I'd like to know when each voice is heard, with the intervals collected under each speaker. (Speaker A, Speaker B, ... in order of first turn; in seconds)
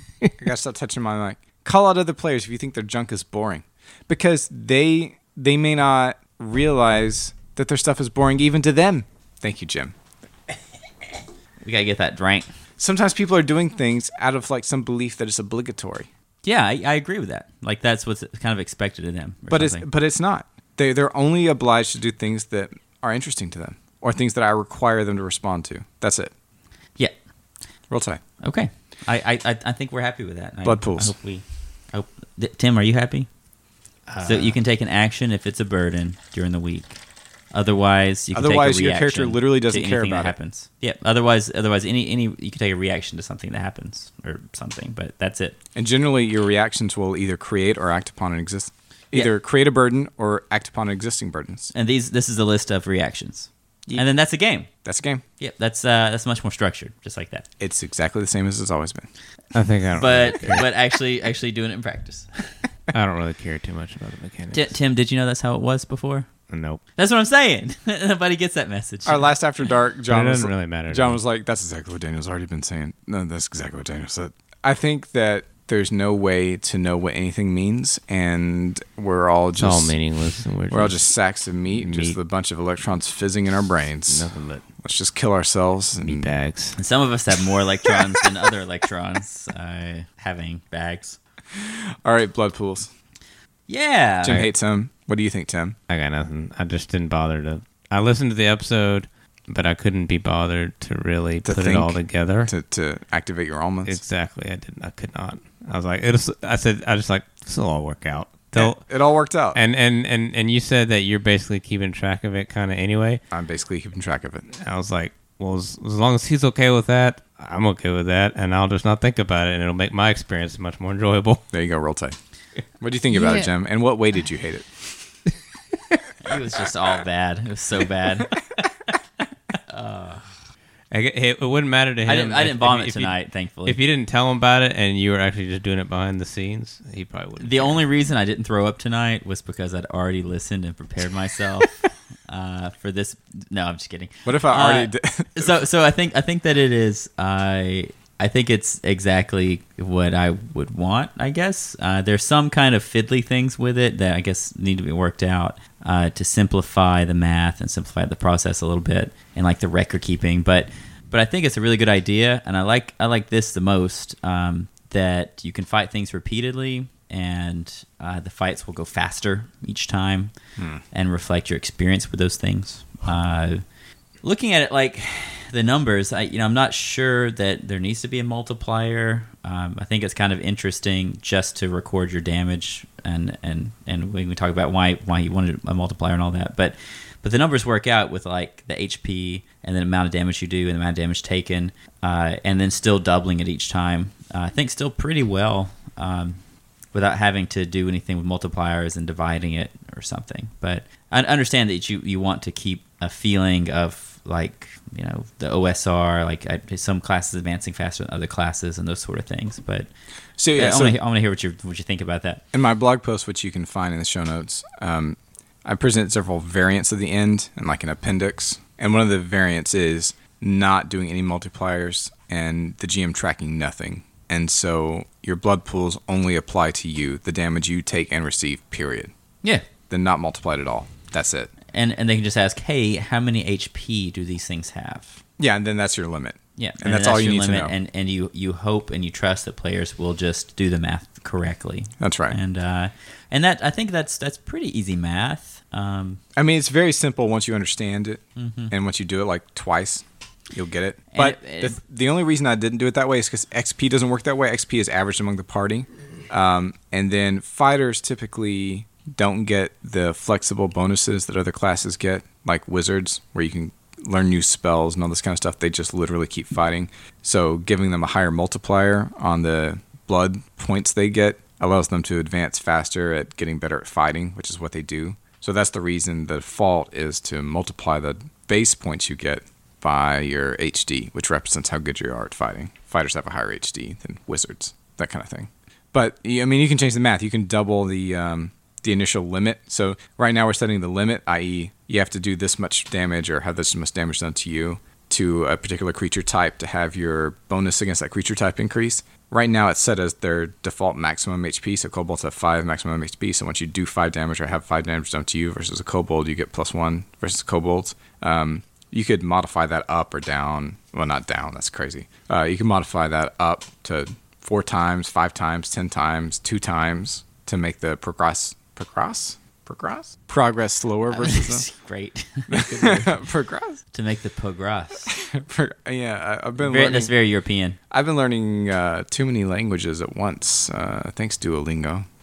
Speaker A: 0.4-9.9, 12.8-16.1, 19.5-26.3, 27.9-28.2, 30.6-31.1, 38.3-40.4, 45.7-51.7, 54.8-55.2, 57.6-59.1, 69.0-80.0, 80.7-84.2, 84.8-86.3, 91.5-92.9, 94.2-95.8, 101.4-104.0, 108.5-109.6, 113.3-114.5, 121.5-122.2, 122.8-124.9, 144.2-145.5, 170.6-170.8, 210.4-211.0, 212.5-229.1, 229.9-231.5, 235.4-237.7, 242.0-242.4, 246.3-321.6, 322.5-323.8, 325.1-327.1, 327.9-332.1
Speaker B: 11.6-12.5, 16.4-19.9, 28.4-33.3, 34.2-37.0, 37.5-45.6, 51.7-54.7, 55.4-57.5, 60.0-62.6, 64.5-66.3, 67.0-69.3, 86.8-91.2, 93.7-94.4, 126.2-128.3, 129.7-130.2, 132.0-133.8, 137.4-170.3, 170.9-173.6, 174.2-196.4, 196.9-209.9, 210.5-212.4, 231.7-235.2, 236.6-246.2, 248.3-248.7, 251.1-251.8, 321.1-323.2, 323.9-325.1, 326.6-327.8
Speaker C: 34.1-34.6, 59.5-60.6, 62.9-64.7, 66.5-66.8, 70.1-71.2, 79.6-81.0, 81.7-82.2, 84.1-84.6, 86.0-86.8, 95.9-102.5, 103.8-108.9, 109.5-113.2, 114.5-121.4, 130.9-137.8